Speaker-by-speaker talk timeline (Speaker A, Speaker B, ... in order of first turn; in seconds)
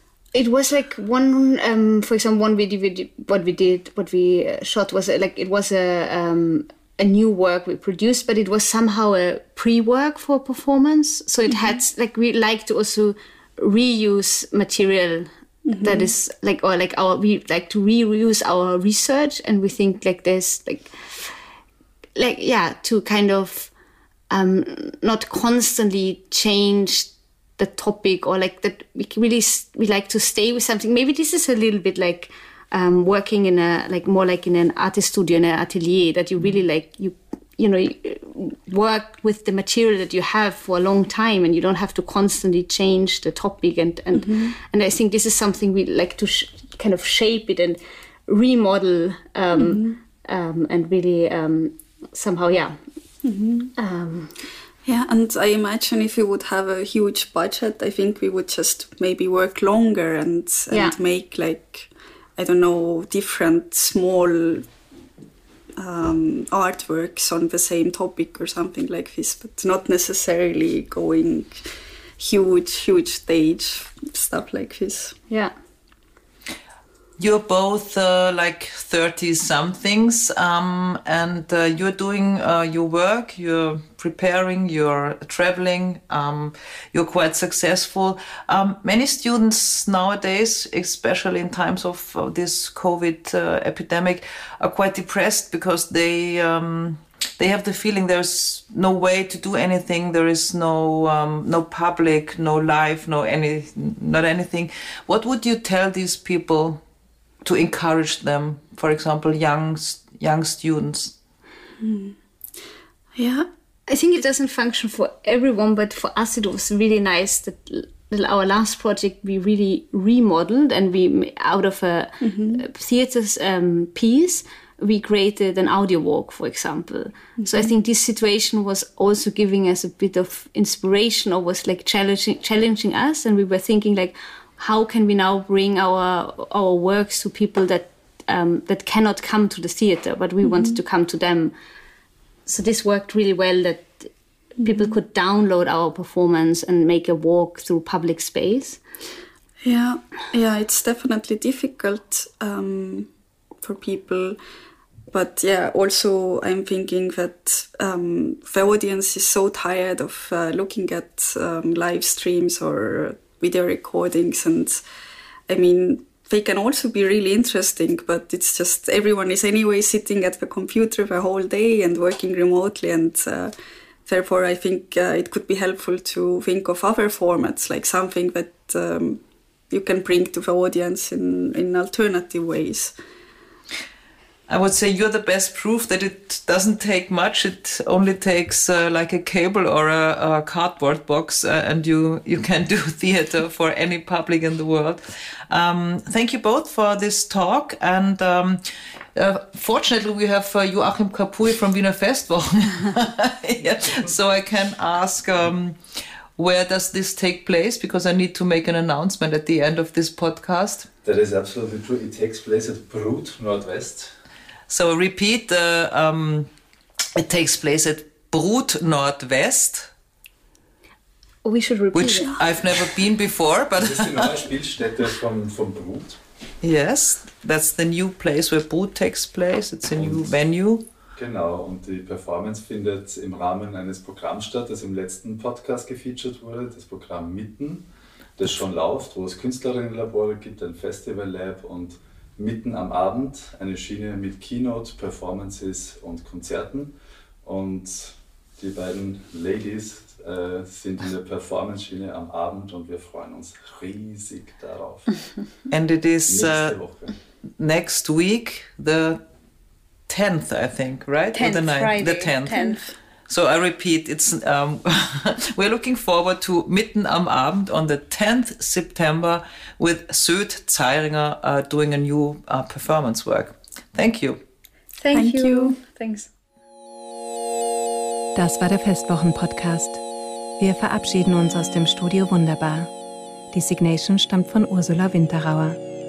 Speaker A: 0.3-21.0, 22.1-23.7, 24.3-52.8, 53.8-54.4, 60.7-61.0, 113.9-141.5, 142.5-148.8, 221.4-222.4, 261.3-262.9, 275.0-276.3
Speaker B: 15.7-16.1, 44.1-44.5, 49.5-50.0, 53.2-53.7, 54.9-64.7, 65.8-71.7, 72.2-75.2, 111.8-112.2, 113.2-113.5, 122.2-122.6, 127.4-127.7, 140.4-140.8, 144.6-144.9, 149.6-153.1, 153.6-154.4, 155.1-164.8, 165.5-173.5, 174.1-182.9, 275.1-275.8
Speaker C: 77.2-106.8, 107.4-111.2, 184.5-198.6, 199.2-205.8, 206.4-210.9, 214.7-216.5, 217.2-219.9, 221.9-224.3, 226.6-230.8, 255.7-256.8, 257.6-259.2, 260.1-262.7, 263.3-274.4
Speaker D: 211.0-214.1, 223.8-226.2, 229.9-230.4, 231.2-237.8, 238.4-255.1, 256.3-257.2
Speaker E: 278.4-280.0, 280.6-282.9, 283.5-285.8